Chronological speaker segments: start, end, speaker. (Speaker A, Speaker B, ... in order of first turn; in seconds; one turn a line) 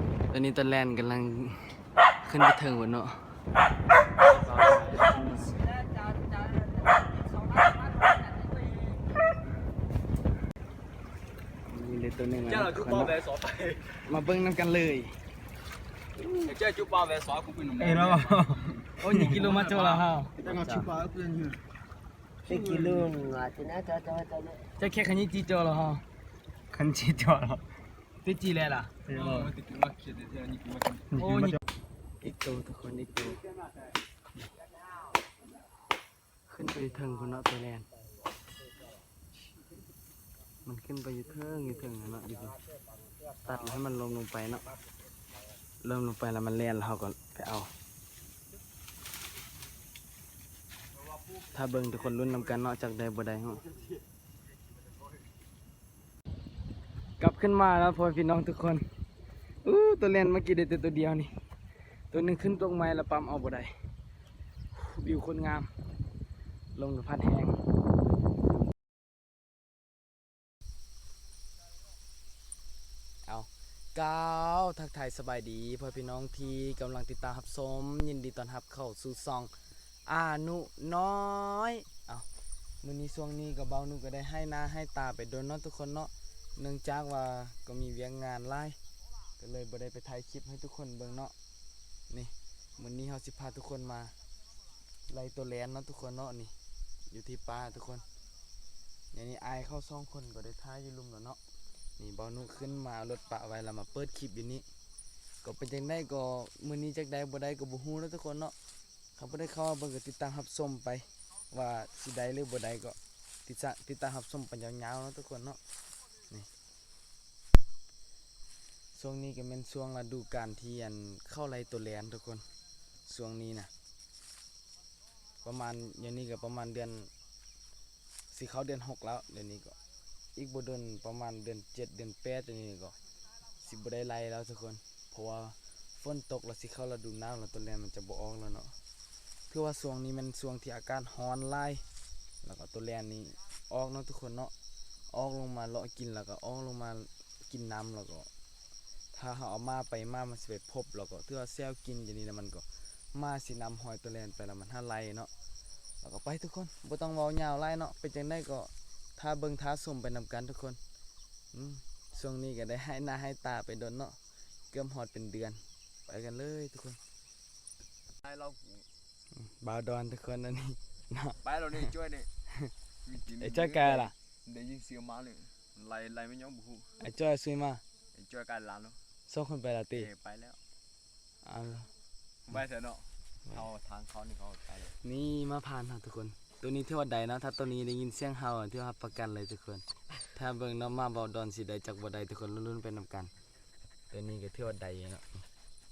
Speaker A: 0.3-3.3
Speaker A: 4.3-5.6
Speaker B: 4.3-5.5
Speaker C: 5.6-9.0
Speaker A: 11.7-13.2
Speaker B: 12.4-14.1
Speaker A: 14.1-15.2
Speaker B: 16.4-21.6
Speaker D: 17.8-19.4
Speaker A: 19.0-20.3
Speaker C: 20.4-20.9
Speaker C: 22.4-24.6
Speaker B: 22.5-23.1
Speaker A: 24.8-26.0
Speaker D: 26.7-27.6
Speaker A: 28.2-28.9
Speaker B: 29.1-31.1
Speaker D: 29.1-29.5
Speaker D: 31.1-31.6
Speaker A: 31.1-31.6
Speaker A: 32.2-33.4
Speaker C: 34.6-35.2
Speaker A: 36.5-37.9
Speaker C: 36.8-39.1
Speaker A: 40.6-42.5
Speaker C: 41.5-43.9
Speaker A: 43.5-44.7
Speaker C: 44.6-45.6
Speaker A: 45.8-47.7
Speaker B: 50.9-52.6
Speaker A: 51.5-53.6
Speaker B: 53.6-55.3
Speaker A: 57.2-58.9
Speaker A: 59.6-61.3
Speaker A: 62.1-63.7
Speaker A: 64.7-65.7
Speaker A: 66.8-67.6
Speaker A: 73.3-79.5
Speaker A: 80.1-82.3
Speaker A: 82.8-88.8
Speaker A: 89.4-91.3
Speaker A: 92.1-94.1
Speaker A: 95.1-96.5
Speaker A: 97.1-98.0
Speaker A: 99.1-101.4
Speaker A: 102.0-104.7
Speaker A: 105.4-108.5
Speaker A: 109.2-115.6
Speaker A: 118.9-122.5
Speaker A: 123.1-123.7
Speaker A: 125.4-127.1
Speaker A: 128.3-129.8
Speaker A: 130.4-132.9
Speaker A: 133.6-138.8
Speaker A: 139.5-141.8
Speaker A: 142.4-144.5
Speaker A: 145.1-148.3
Speaker A: 149.1-155.3
Speaker A: 156.0-160.8
Speaker A: 161.5-164.2
Speaker A: 164.7-167.0
Speaker B: 168.2-168.9
Speaker A: 169.3-171.4
Speaker B: 171.4-172.3
Speaker B: 173.1-176.9
Speaker A: 173.4-174.1
Speaker A: 177.0-177.8
Speaker B: 178.1-179.0
Speaker A: 179.3-180.1
Speaker B: 180.0-180.6
Speaker A: 181.4-181.9
Speaker B: 182.5-184.9
Speaker A: 185.0-193.3
Speaker A: 194.1-195.4